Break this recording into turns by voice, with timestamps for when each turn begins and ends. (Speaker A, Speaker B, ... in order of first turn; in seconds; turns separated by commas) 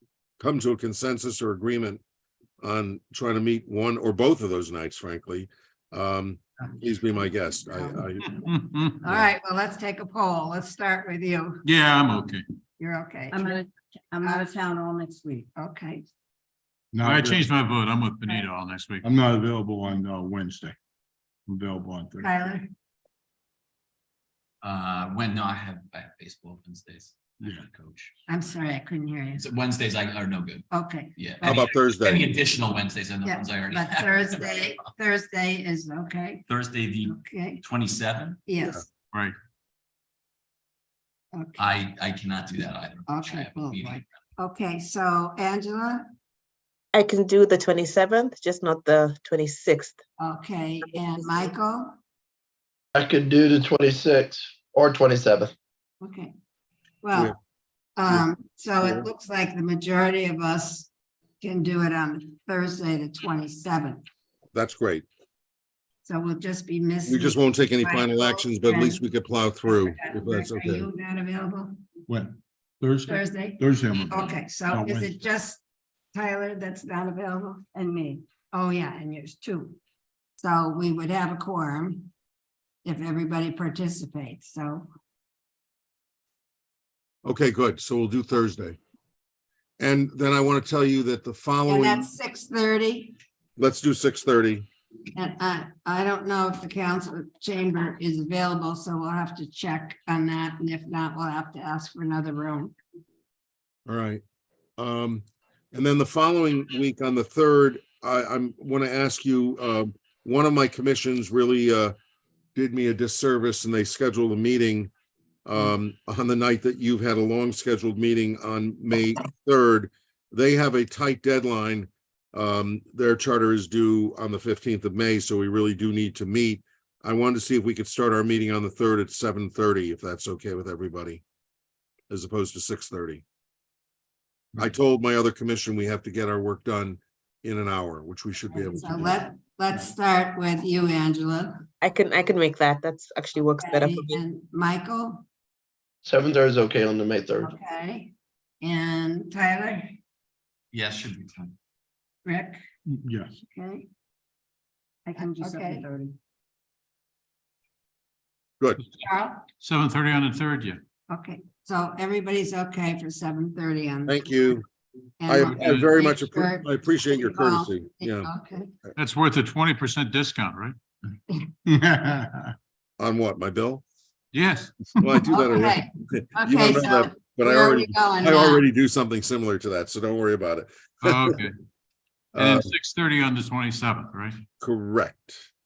Speaker A: 0.4-2.0, Speaker A: 2.6-8.4, Speaker B: 8.3-9.0, Speaker C: 9.0-11.7, Speaker B: 11.6-12.4, Speaker C: 12.8-13.6, Speaker D: 13.3-15.5, Speaker C: 14.2-14.5, Speaker C: 15.6-16.1, Speaker E: 16.9-17.5, Speaker B: 17.0-19.1, Speaker E: 19.0-20.8, Speaker E: 21.5-22.4, Speaker C: 22.2-22.7, Speaker F: 24.6-28.1, Speaker C: 28.3-29.5, Speaker F: 29.4-34.8, Speaker C: 30.7-31.6, Speaker A: 31.4-32.4, Speaker C: 33.2-36.4, Speaker F: 36.5-38.4, Speaker C: 37.0-37.6, Speaker C: 38.5-38.9, Speaker C: 41.3-41.7, Speaker F: 41.6-44.1, Speaker C: 43.1-46.0, Speaker G: 46.9-50.0, Speaker C: 50.2-52.0, Speaker H: 52.9-55.5, Speaker C: 56.0-56.3, Speaker C: 57.0-57.3, Speaker C: 58.0-60.9, Speaker A: 58.8-59.1, Speaker C: 61.4-64.0, Speaker A: 64.5-65.1, Speaker C: 66.0-69.0, Speaker A: 67.1-70.9, Speaker C: 69.6-71.8, Speaker E: 72.1-75.2, Speaker C: 73.1-75.6, Speaker C: 76.1-77.6, Speaker D: 77.7-78.2, Speaker C: 78.5-79.8, Speaker C: 80.4-82.1, Speaker C: 82.8-84.9, Speaker A: 87.2-88.8, Speaker A: 89.8-92.1, Speaker C: 91.7-93.2, Speaker A: 93.6-94.7, Speaker C: 95.2-102.7, Speaker A: 103.9-104.2, Speaker A: 104.8-111.9, Speaker A: 112.5-114.9, Speaker A: 115.5-131.2, Speaker A: 132.1-133.2, Speaker A: 134.6-139.3, Speaker C: 138.5-141.6, Speaker G: 141.8-144.2, Speaker C: 143.6-145.2, Speaker H: 146.0-147.5, Speaker C: 147.4-150.0, Speaker F: 150.7-151.6, Speaker C: 152.2-152.6, Speaker E: 152.9-153.4, Speaker C: 153.5-153.9, Speaker D: 155.1-156.2, Speaker C: 155.1-155.9, Speaker C: 159.0-159.4, Speaker B: 159.6-160.8, Speaker C: 161.1-164.3, Speaker A: 164.1-164.7, Speaker C: 165.2-168.7, Speaker A: 165.3-168.3, Speaker B: 165.6-165.9, Speaker B: 169.0-170.8, Speaker E: 171.7-172.5, Speaker A: 173.0-173.8, Speaker B: 174.3-175.3, Speaker A: 175.0-181.2, Speaker C: 175.3-178.7, Speaker B: 181.0-181.5, Speaker A: 182.3-182.7, Speaker B: 182.3-184.4, Speaker A: 184.6-185.4